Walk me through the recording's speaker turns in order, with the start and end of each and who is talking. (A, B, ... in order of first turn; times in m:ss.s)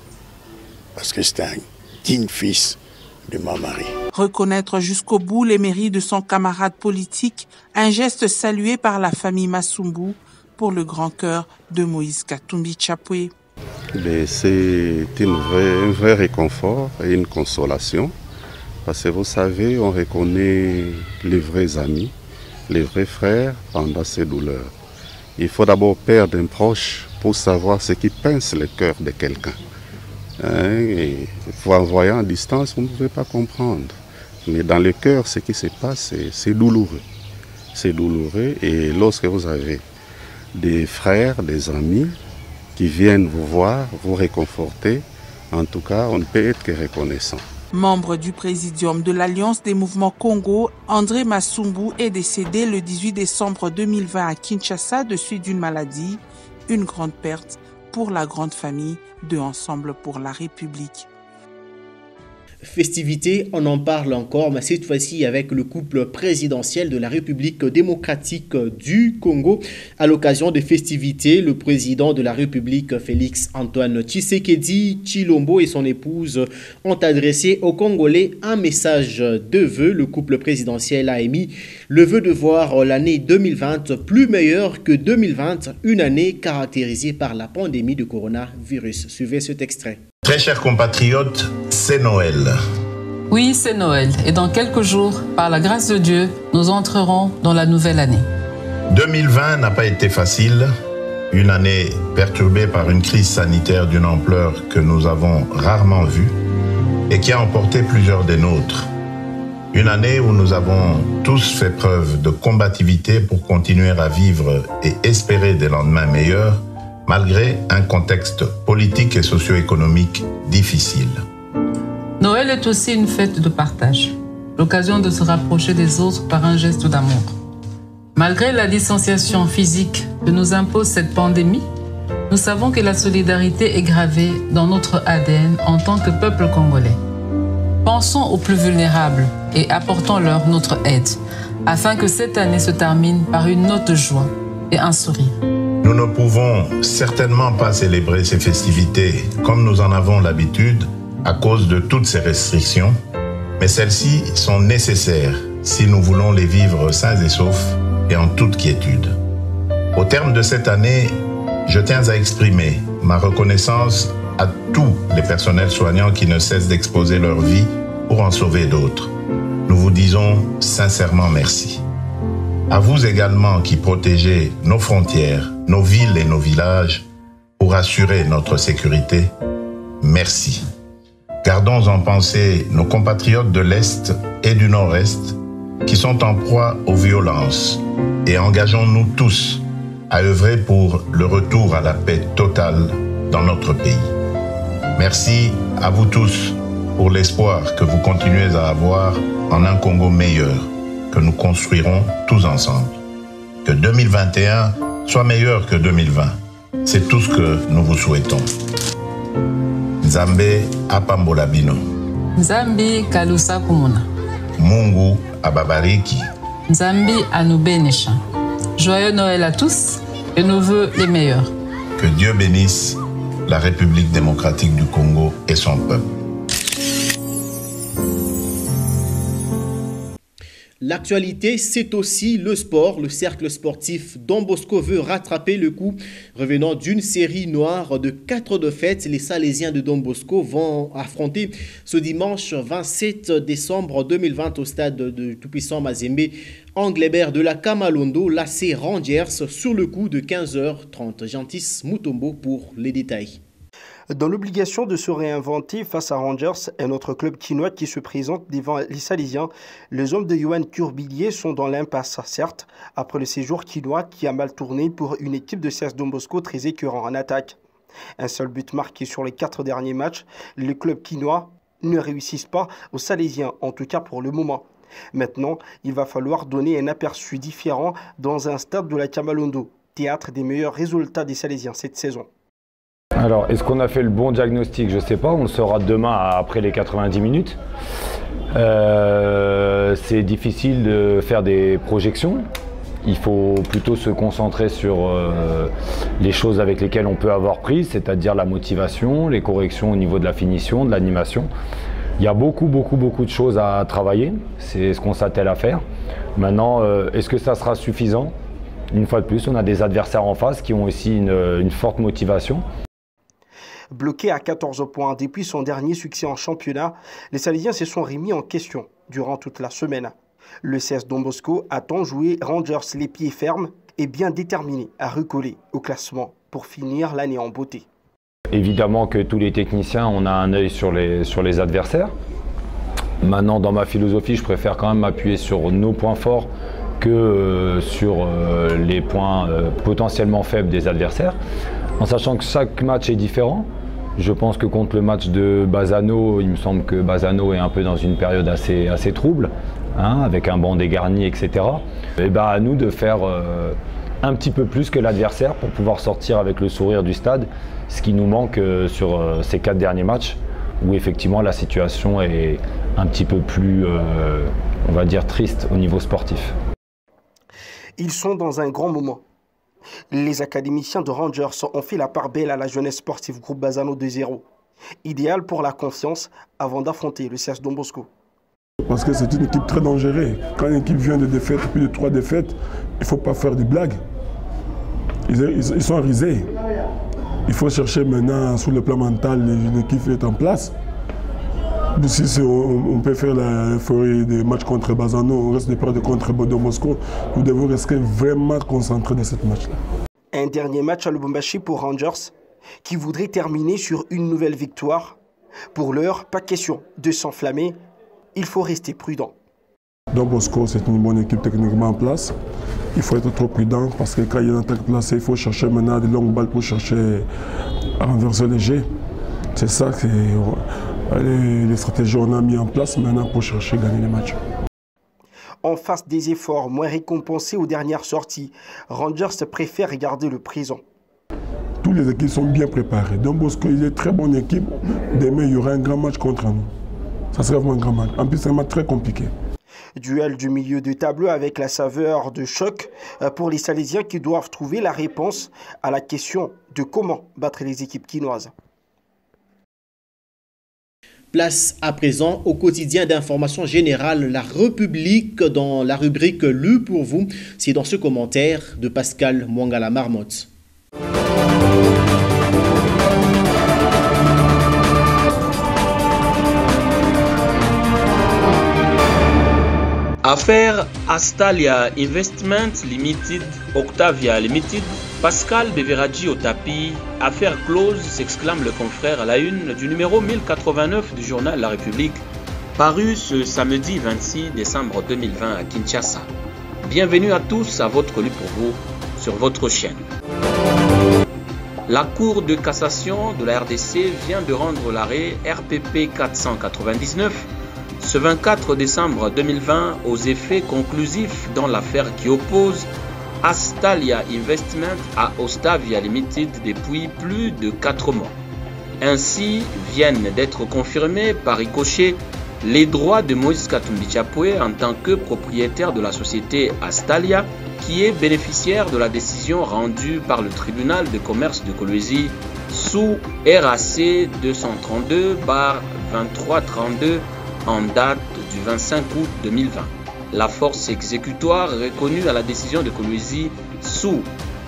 0:01.0-0:03.9 A
0:04.1-0:13.3 B
0:13.9-0:18.2 C
0:18.8-0:22.1 C
0:22.7-0:24.7 C
0:25.4-0:29.6 C
0:30.4-0:37.0 C
0:37.7-0:39.8 C
0:40.6-0:42.2 C
0:42.8-0:47.5 C
0:47.7-1:01.1 B
1:02.6-1:30.0 D
1:30.2-1:32.6 E
1:33.3-1:38.3 F
1:38.9-1:40.7 E
1:41.3-1:46.4 E
1:47.1-1:48.9 E
1:49.7-2:01.2 E
2:02.2-2:07.4 F
2:08.2-2:11.7 F
2:12.3-2:17.0 F
2:17.8-2:25.4 F
2:25.8-2:33.0 E
2:33.6-2:39.1 E
2:40.0-2:41.2 E
2:41.7-2:49.1 E
2:49.7-2:51.8 E
2:52.7-2:57.1 E
2:57.6-2:59.3 E
3:00.0-3:00.7 E
3:01.4-3:14.1 E
3:15.0-3:23.0 E
3:23.6-3:28.5 E
3:30.0-3:31.8 E
3:32.4-3:34.1 F
3:34.6-3:36.3 E
3:36.7-3:38.2 F
3:38.8-3:41.5 F
3:42.0-3:46.1 E
3:50.8-4:13.4 D
4:14.1-4:27.6 G
4:28.2-4:42.3 G
4:43.2-4:47.6 H
4:48.5-4:52.4 H
4:53.0-5:01.5 H
5:02.2-5:05.8 H
5:06.4-5:08.3 H
5:08.9-5:12.6 H
5:13.9-5:27.8 G
5:28.5-5:32.1 H
5:33.2-5:36.5 H
5:37.0-5:41.4 H
5:42.0-6:06.5 H
6:08.0-6:09.2 G
6:10.1-6:14.5 G
6:15.0-6:18.1 G
6:18.8-6:24.0 I
6:25.3-6:26.5 I
6:27.5-6:30.7 I
6:32.0-6:39.8 I
6:40.3-6:45.2 G
6:45.7-6:47.8 G
6:48.4-6:49.4 G
6:50.1-6:52.4 I
6:53.0-6:57.3 I
6:58.0-6:58.9 I
6:59.6-7:04.4 I
7:05.6-7:10.8 G
7:11.8-7:16.7 I
7:17.3-7:19.3 I
7:20.0-7:28.5 G
7:31.3-7:40.5 D
7:50.2-8:02.2 J
8:02.8-8:06.3 J
8:06.8-8:10.1 J
8:11.9-8:17.5 J
8:18.0-8:22.9 J
8:23.4-8:28.4 J
8:29.0-8:54.3 J